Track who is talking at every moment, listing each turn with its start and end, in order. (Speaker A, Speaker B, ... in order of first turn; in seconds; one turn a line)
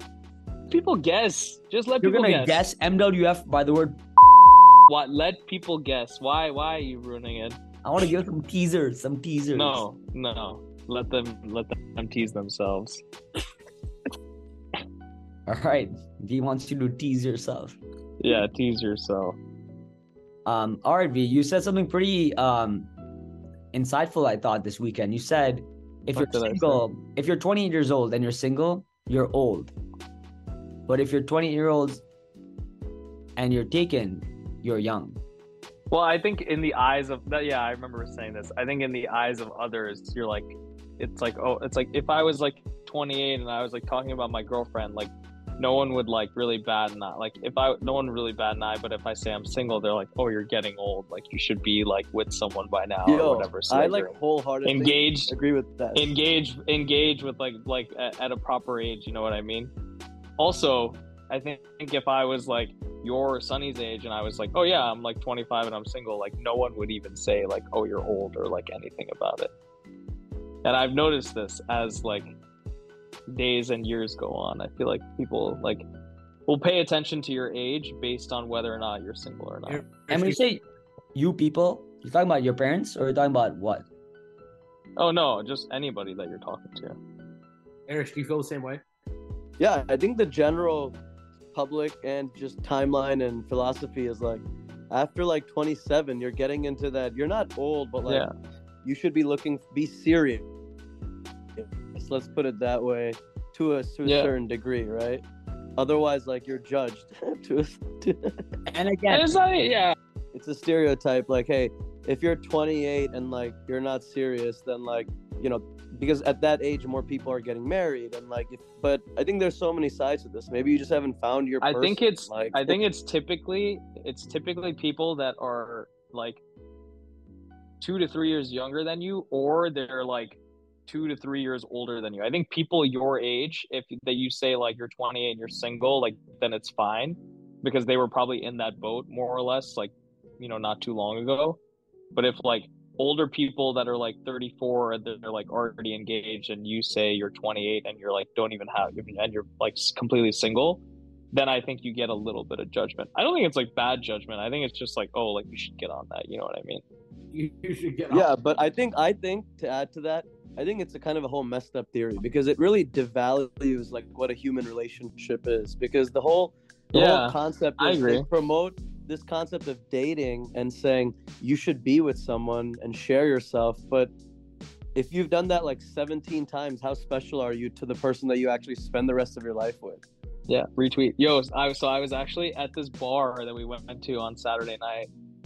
Speaker A: 0.7-2.6
Speaker B: 2.0-4.8
Speaker A: 4.9-7.6
Speaker B: 7.8-9.8
Speaker A: 9.5-13.0
Speaker B: 15.4-17.8
Speaker A: 18.2-19.4
Speaker B: 20.4-22.9
Speaker B: 23.7-29.7
Speaker A: 26.1-26.8
Speaker B: 30.9-32.0
Speaker B: 33.4-35.2
Speaker A: 35.9-55.3
Speaker C: 53.0-56.1
Speaker A: 55.9-59.7
Speaker A: 60.4-69.5
Speaker A: 70.6-72.3
Speaker A: 73.3-75.8
Speaker A: 76.5-79.8
Speaker D: 79.7-80.4
Speaker B: 80.1-80.6
Speaker B: 81.1-83.8
Speaker A: 85.0-87.0
Speaker D: 87.9-88.8
Speaker C: 89.6-91.0
Speaker C: 91.5-98.2
Speaker A: 98.0-98.3
Speaker C: 98.8-100.5
Speaker C: 101.6-105.2
Speaker A: 104.0-104.3
Speaker C: 105.8-108.3
Speaker B: 108.7-109.3
Speaker A: 109.1-109.9
Speaker C: 110.3-122.8
Speaker A: 121.6-126.4
Speaker A: 127.8-141.6
Speaker A: 142.1-156.8
Speaker D: 157.3-158.3
Speaker C: 158.1-174.1
Speaker A: 166.9-168.3
Speaker C: 174.9-180.0
Speaker A: 180.5-185.1